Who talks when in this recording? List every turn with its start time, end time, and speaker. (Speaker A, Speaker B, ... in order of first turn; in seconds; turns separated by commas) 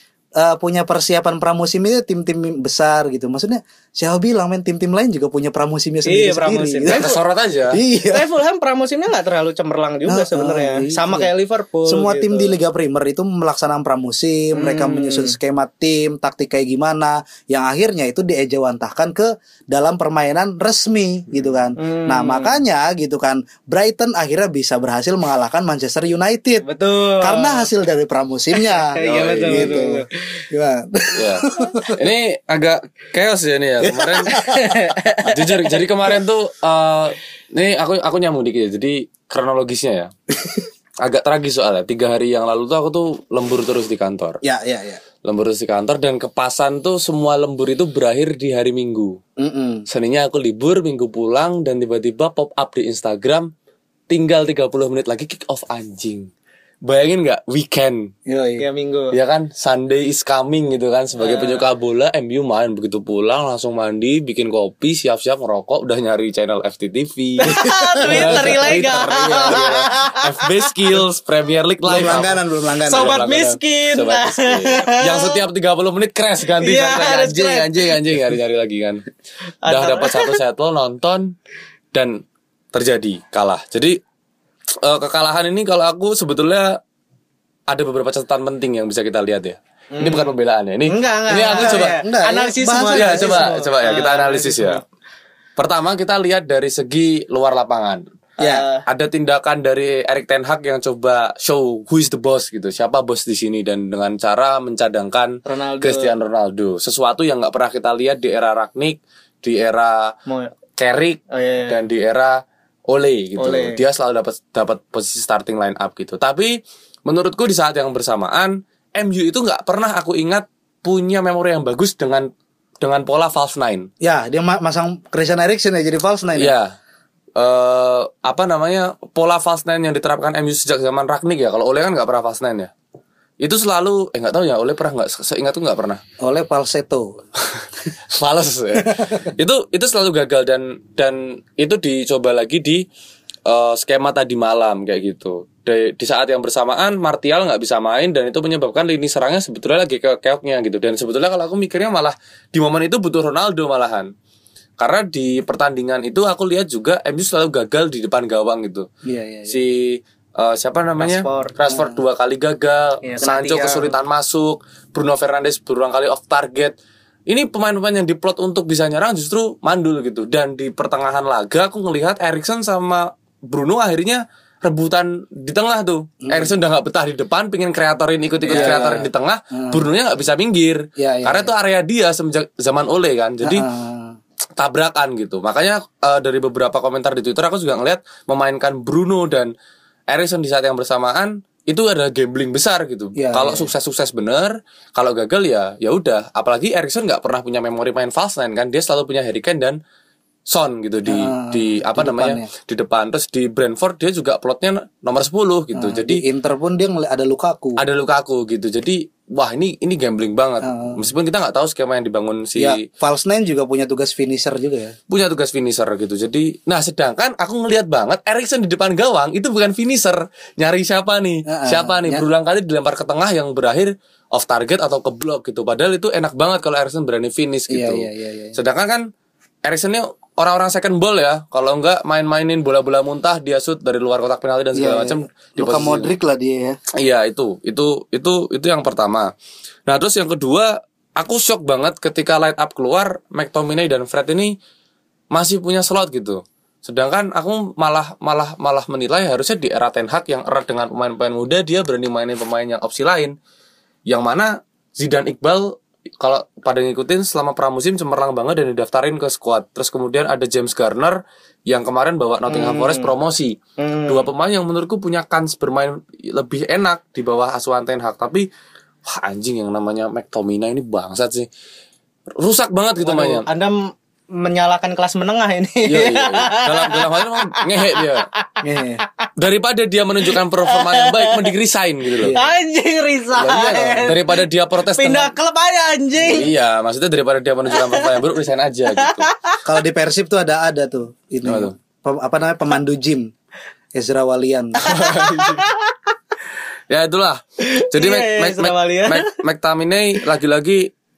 Speaker A: 0.3-7.1, Speaker B: 6.0-7.2, Speaker C: 6.9-7.8, Speaker A: 7.7-8.2, Speaker B: 8.0-12.5, Speaker A: 10.1-11.3, Speaker A: 11.8-26.6, Speaker B: 14.5-15.3, Speaker B: 21.8-22.6, Speaker B: 26.6-27.6, Speaker A: 27.2-32.0, Speaker B: 28.7-30.4, Speaker C: 29.0-29.9, Speaker C: 31.1-34.4, Speaker A: 33.8-34.7, Speaker B: 34.3-35.4, Speaker C: 35.2-40.1, Speaker A: 40.4-40.6, Speaker C: 41.0-44.4, Speaker A: 44.4-45.0, Speaker C: 45.2-49.2, Speaker A: 49.4-49.8, Speaker C: 49.9-53.5, Speaker C: 54.1-56.3, Speaker C: 56.8-58.1, Speaker A: 58.3-58.6, Speaker B: 58.6-59.1, Speaker C: 59.1-72.4, Speaker B: 61.2-61.6, Speaker B: 67.4-70.9, Speaker A: 67.5-68.7, Speaker A: 71.8-73.2, Speaker B: 72.8-75.4, Speaker C: 72.9-79.0, Speaker B: 76.6-77.9, Speaker B: 79.7-80.3, Speaker C: 79.7-81.3, Speaker C: 81.9-82.2, Speaker C: 82.7-84.0, Speaker C: 84.8-86.8, Speaker C: 87.7-92.0, Speaker B: 90.0-90.3, Speaker B: 90.9-94.8, Speaker A: 91.5-93.5, Speaker C: 92.9-94.8, Speaker C: 95.6-98.0, Speaker A: 98.4-98.6, Speaker B: 98.4-98.8, Speaker C: 98.8-110.1, Speaker B: 105.5-106.1, Speaker B: 110.3-110.5, Speaker C: 110.8-122.3, Speaker B: 111.3-111.8, Speaker B: 113.4-113.8, Speaker C: 122.8-123.9, Speaker A: 124.0-126.5, Speaker C: 126.4-126.7, Speaker C: 127.3-132.7, Speaker C: 133.4-136.0, Speaker A: 136.2-137.2, Speaker C: 137.5-142.8, Speaker A: 138.8-139.2, Speaker C: 143.5-154.1, Speaker C: 154.8-158.9, Speaker A: 159.0-159.6, Speaker C: 159.5-166.7, Speaker B: 161.0-161.5, Speaker A: 161.7-162.0, Speaker B: 163.0-163.9, Speaker C: 167.3-183.7, Speaker A: 176.2-176.5, Speaker A: 178.4-179.8, Speaker A: 181.0-181.5, Speaker A: 183.4-184.2, Speaker C: 184.6-189.5, Speaker C: 190.1-199.8, Speaker A: 193.2-193.7, Speaker C: 200.5-206.2, Speaker A: 201.1-202.5, Speaker A: 205.7-207.8, Speaker C: 207.8-212.8, Speaker A: 210.6-211.0, Speaker A: 212.6-214.9, Speaker C: 215.1-229.0, Speaker A: 221.5-222.2, Speaker A: 227.7-228.6, Speaker C: 229.7-236.1, Speaker A: 234.7-236.8, Speaker C: 237.0-239.3, Speaker C: 239.9-244.5, Speaker C: 245.3-253.3, Speaker C: 254.1-263.6, Speaker B: 262.5-263.1, Speaker B: 263.8-264.3, Speaker C: 264.1-268.5, Speaker C: 269.1-271.5, Speaker C: 272.4-273.4, Speaker B: 273.0-278.5, Speaker C: 275.9-278.3, Speaker A: 278.6-279.0, Speaker C: 279.4-282.4, Speaker B: 280.2-281.5, Speaker A: 282.2-282.5, Speaker B: 282.3-284.4, Speaker C: 283.4-285.3, Speaker B: 284.9-286.5, Speaker A: 286.2-286.5, Speaker C: 286.3-289.3, Speaker B: 287.7-288.2, Speaker B: 288.9-289.6, Speaker A: 289.6-293.3, Speaker C: 291.4-291.7, Speaker A: 293.9-294.9, Speaker B: 294.8-296.0, Speaker C: 294.9-295.7, Speaker C: 296.9-300.9, Speaker B: 297.6-299.4